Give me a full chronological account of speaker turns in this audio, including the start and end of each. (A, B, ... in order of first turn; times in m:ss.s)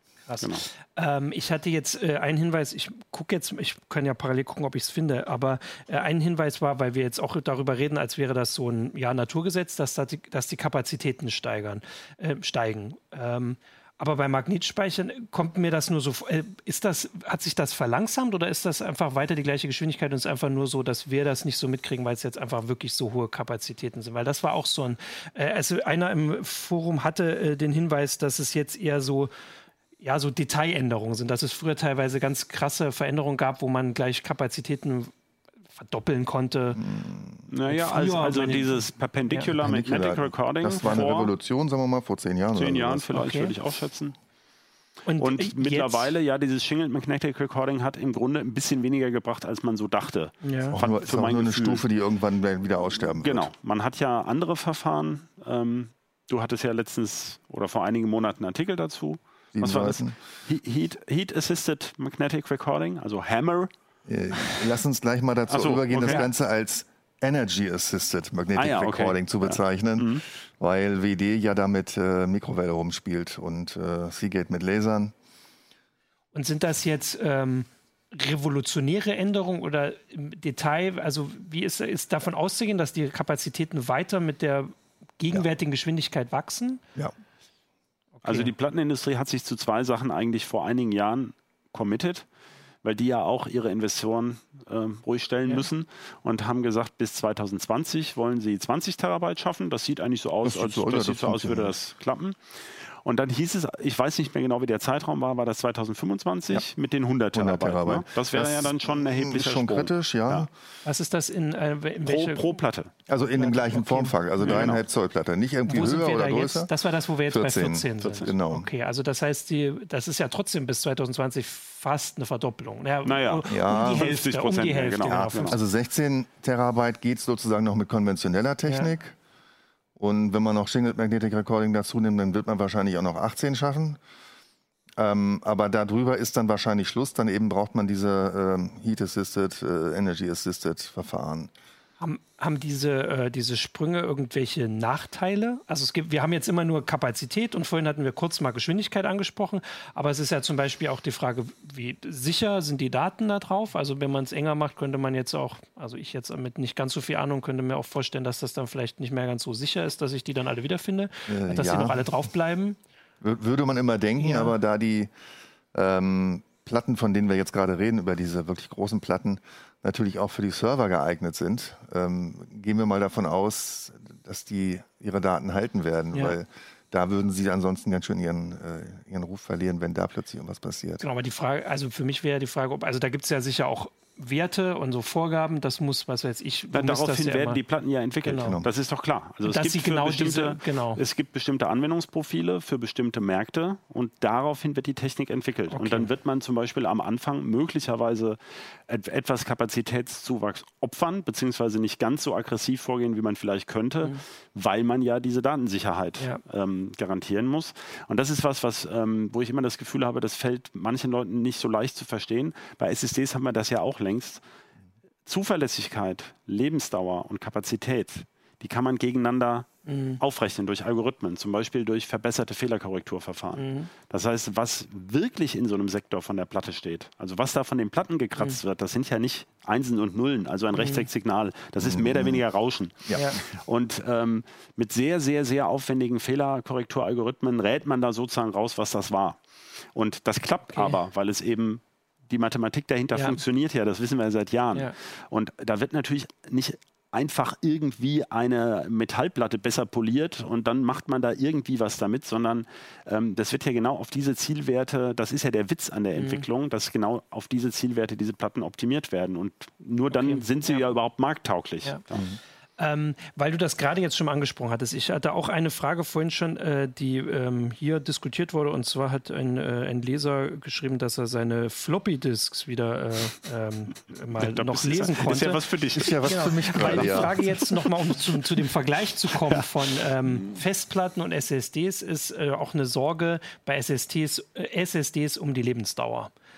0:00.3-0:29.3 A
0:30.0-0:35.1 A
0:35.7-0:36.8 A
0:36.8-0:37.5 B
0:37.5-0:41.3 C
0:37.7-0:39.5 A
0:39.6-0:43.1 B
0:42.5-0:44.1 C
0:43.1-0:43.5 A
0:45.1-0:46.1 A
0:45.2-0:51.8 C
0:50.4-0:50.8 A
0:50.7-0:53.5 B
0:53.2-1:03.7 C
0:59.6-1:00.2 B
1:04.1-1:15.1 B
1:04.4-1:04.6 C
1:05.5-1:06.2 C
1:08.6-1:10.2 C
1:16.3-1:26.8 A
1:28.2-1:28.5 A
1:28.2-1:32.2 C
1:32.8-1:42.4 C
1:40.4-1:41.7 B
1:43.0-1:50.5 C
1:47.3-1:50.5 B
1:50.8-1:52.5 A
1:52.0-1:52.9 C
1:53.1-1:56.7 B
1:53.4-1:54.7 A
1:54.4-1:54.8 C
1:55.7-2:05.6 A
1:57.3-1:58.7 B
1:58.0-1:58.3 C
2:03.0-2:05.6 C
2:03.5-2:04.0 B
2:05.1-2:09.2 B
2:10.0-2:14.0 B
2:15.0-2:21.5 B
2:22.0-2:42.8 A
2:41.3-2:42.1 B
2:43.2-2:45.1 B
2:44.2-2:44.5 A
2:45.7-3:01.0 B
3:01.0-3:07.6 A
3:06.7-3:34.4 C
3:08.2-3:08.6 A
3:08.4-3:08.7 B
3:09.5-3:11.0 A
3:15.7-3:16.1 A
3:35.2-3:59.4 C
3:39.9-3:40.2 A
3:43.6-3:43.9 A
3:50.8-3:51.1 A
3:51.8-3:52.4 B
3:53.1-3:53.4 B
3:53.1-3:53.4 A
3:59.9-4:22.2 C
4:16.1-4:16.4 A
4:20.1-4:20.8 A
4:22.8-4:35.6 A
4:34.4-4:37.9 C
4:36.0-4:37.3 B
4:36.2-4:46.3 A
4:39.3-4:40.6 C